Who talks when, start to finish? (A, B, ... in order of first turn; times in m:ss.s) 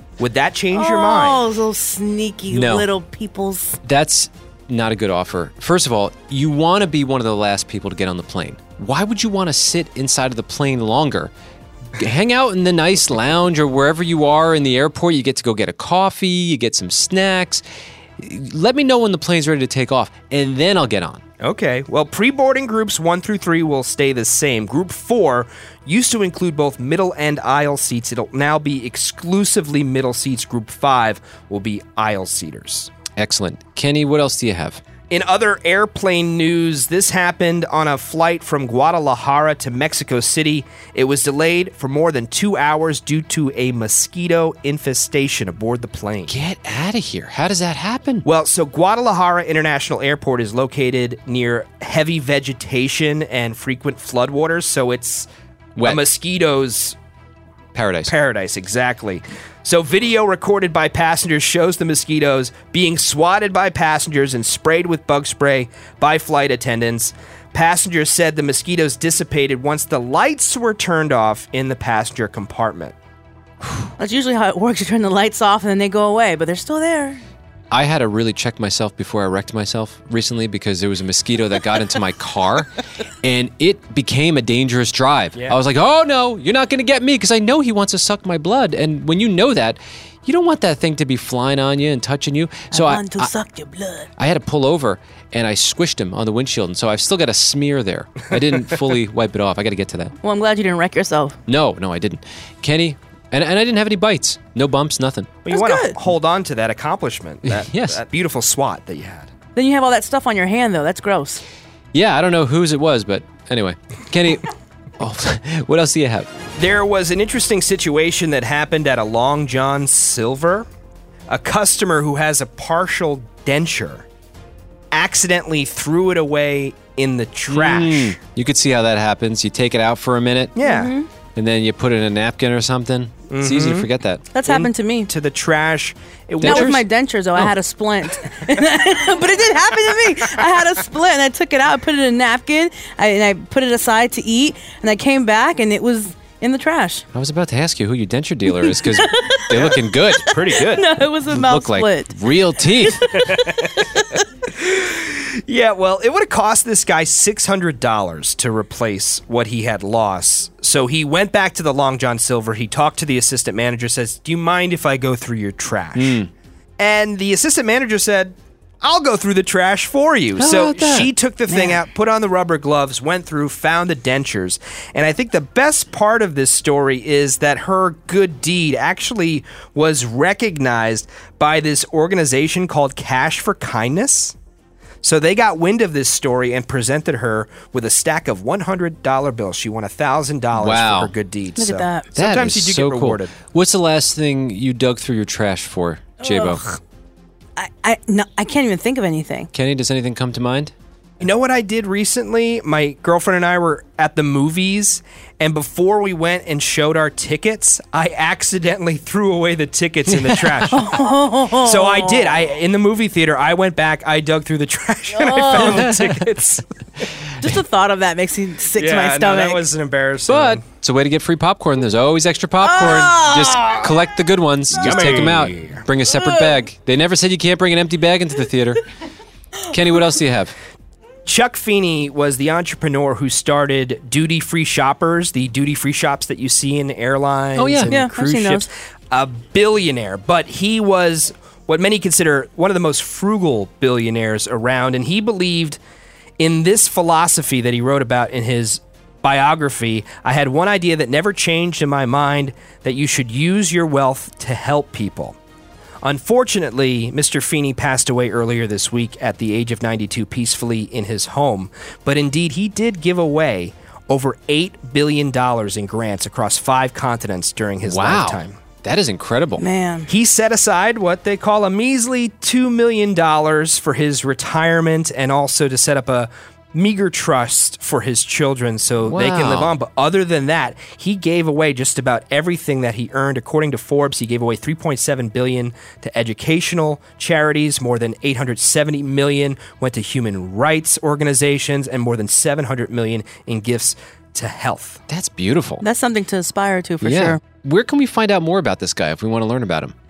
0:00.2-0:01.4 A
0:00.7-0:03.8 B
0:02.5-0:02.8 C
0:03.8-0:11.3 C
0:12.0-0:17.6 C
0:18.2-0:21.2 C
0:21.4-0:32.9 A
0:33.2-0:34.8 C
0:35.1-0:46.3 A
0:46.3-0:48.2 C
0:48.2-0:55.3 A
0:55.8-0:56.0 C
0:55.8-0:57.0 A
0:57.7-0:58.1 C
0:58.0-1:12.9 A
1:14.0-1:17.2 B
1:17.7-1:22.7 C
1:23.2-1:33.3 C
1:32.7-1:34.1 B
1:34.2-1:40.1 C
1:40.2-1:41.4 B
1:41.5-1:45.4 C
1:45.4-1:49.3 A
1:45.5-1:46.0 B
1:47.4-1:48.0 C
1:49.5-1:51.4 B
1:51.9-1:54.5 C
1:55.0-1:56.3 C
1:56.6-2:00.6 A
2:01.3-2:04.0 A
2:04.9-2:08.2 A
2:07.5-2:10.5 C
2:10.6-2:10.9 A
2:10.6-2:11.1 B
2:11.3-2:14.2 C
2:13.3-2:13.9 A
2:14.3-2:15.1 B
2:14.4-2:16.8 A
2:16.4-2:16.8 C
2:16.4-2:27.0 B
2:27.1-2:30.2 C
2:28.5-2:29.4 B
2:29.5-2:30.9 A
2:30.3-2:32.1 B
2:31.3-2:33.1 C
2:33.3-2:34.2 B
2:34.5-2:46.2 A
2:46.0-2:46.3 C
2:46.8-3:04.3 A
2:50.4-2:51.1 C
2:51.5-2:51.8 B
3:05.0-3:13.3 A
3:10.6-3:11.1 C
3:11.6-3:12.1 B
3:12.1-3:16.6 C
3:16.2-3:16.8 B
3:17.6-3:19.5 B
3:19.5-3:20.7 C
3:21.2-3:30.9 A
3:30.1-3:30.7 C
3:30.7-3:32.4 B
3:31.6-3:36.6 A
3:35.1-3:35.8 B
3:35.6-3:36.2 C
3:37.4-3:39.6 B
3:38.7-3:40.6 A
3:40.3-3:48.8 C
3:42.6-3:43.8 B
3:44.7-3:45.8 A
3:46.1-3:46.6 B
3:49.7-3:50.5 C
3:51.2-4:05.8 A
3:57.6-3:58.0 C
3:57.9-3:58.7 B
4:06.4-4:15.4 A
4:16.0-4:28.6 A
4:27.8-4:29.6 C
4:29.6-4:30.1 B
4:30.1-4:55.0 A
4:39.0-4:39.7 C
4:55.1-4:55.8 C
4:55.8-4:57.4 B
4:57.0-4:59.9 C